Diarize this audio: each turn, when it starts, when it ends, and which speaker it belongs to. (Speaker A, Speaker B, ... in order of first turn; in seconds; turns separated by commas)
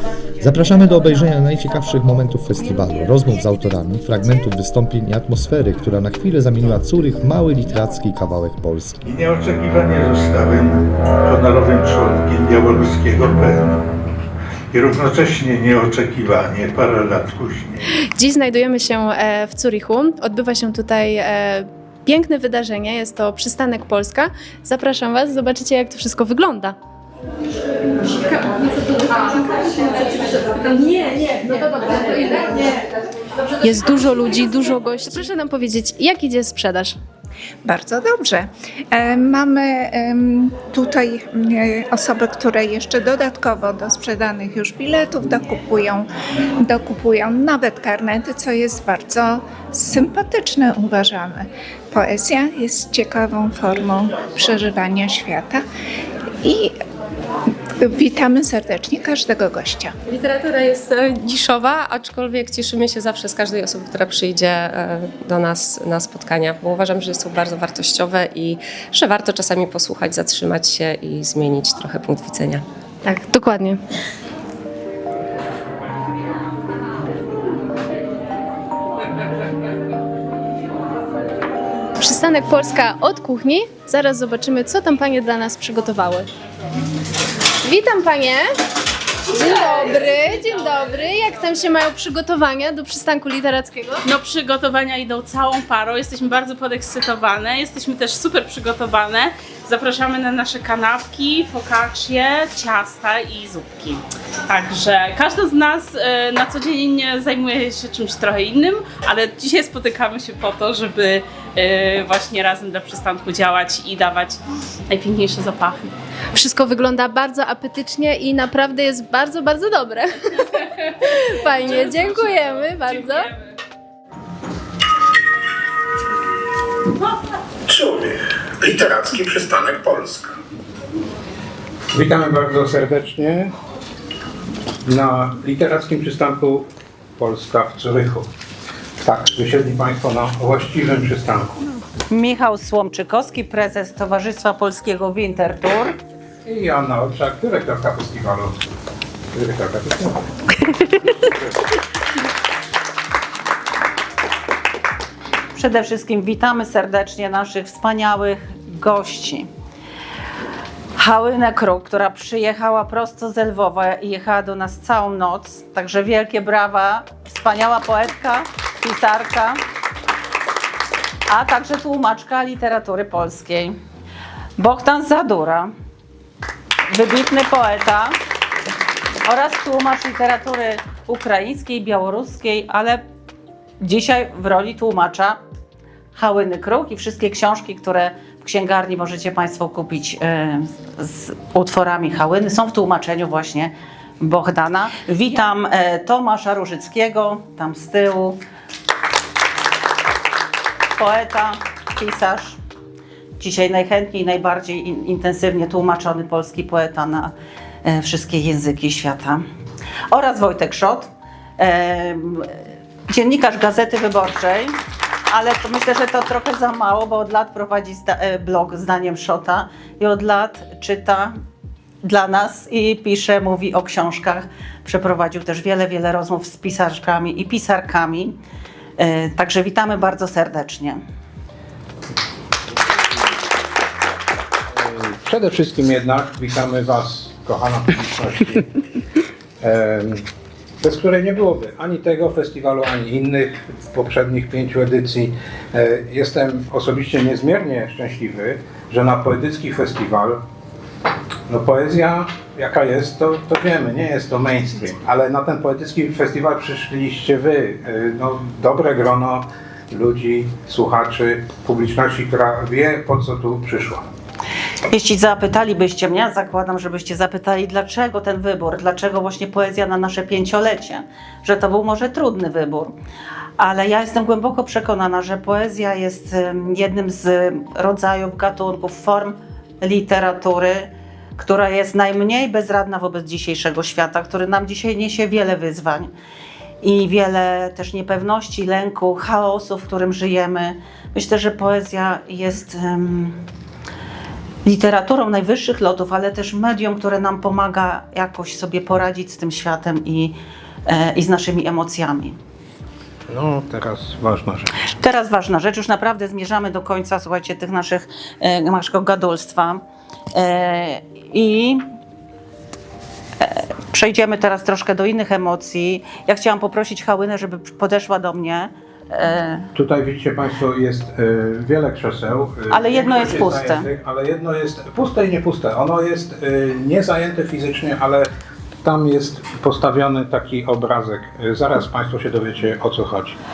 Speaker A: 0.4-9.0, Speaker B: 9.0-13.9, Speaker B: 14.7-17.8, Speaker C: 18.2-26.7, Speaker C: 33.6-37.0, Speaker D: 37.6-46.1, Speaker D: 46.6-55.6, Speaker D: 56.4-56.8, Speaker D: 57.8-60.0, Speaker E: 60.1-72.6, Speaker C: 73.0-73.8, Speaker C: 82.0-86.3, Speaker C: 87.6-88.5, Speaker C: 89.3-94.0, Speaker F: 94.0-115.9, Speaker C: 116.3-120.1, Speaker C: 121.2-123.3, Speaker F: 121.5-123.3, Speaker G: 127.7-130.3, Speaker G: 131.9-133.5, Speaker G: 134.8-138.3, Speaker G: 139.0-141.6, Speaker H: 142.1-145.9, Speaker G: 146.4-148.6, Speaker G: 149.3-150.2, Speaker H: 155.5-159.5, Speaker H: 160.9-169.6, Speaker H: 171.3-173.7, Speaker H: 174.6-175.7, Speaker H: 176.9-178.2, Speaker H: 179.2-183.0, Speaker H: 183.8-185.4, Speaker H: 186.1-198.4, Speaker H: 200.9-202.6, Speaker H: 203.4-207.3, Speaker H: 207.8-209.4, Speaker H: 210.1-212.5, Speaker H: 213.1-214.8, Speaker H: 215.3-221.4, Speaker H: 222.0-228.4, Speaker H: 229.0-231.0, Speaker G: 234.7-238.7, Speaker G: 239.6-240.2, Speaker G: 240.8-250.4, Speaker G: 251.5-264.1, Speaker H: 264.9-272.9, Speaker H: 273.6-286.1, Speaker H: 286.8-293.4, Speaker H: 294.6-300.4, Speaker H: 300.9-302.4, Speaker G: 303.3-304.9, Speaker H: 304.9-309.8, Speaker H: 310.3-311.8, Speaker H: 313.4-319.7, Speaker G: 319.7-328.3, Speaker H: 322.7-323.9, Speaker G: 328.8-333.4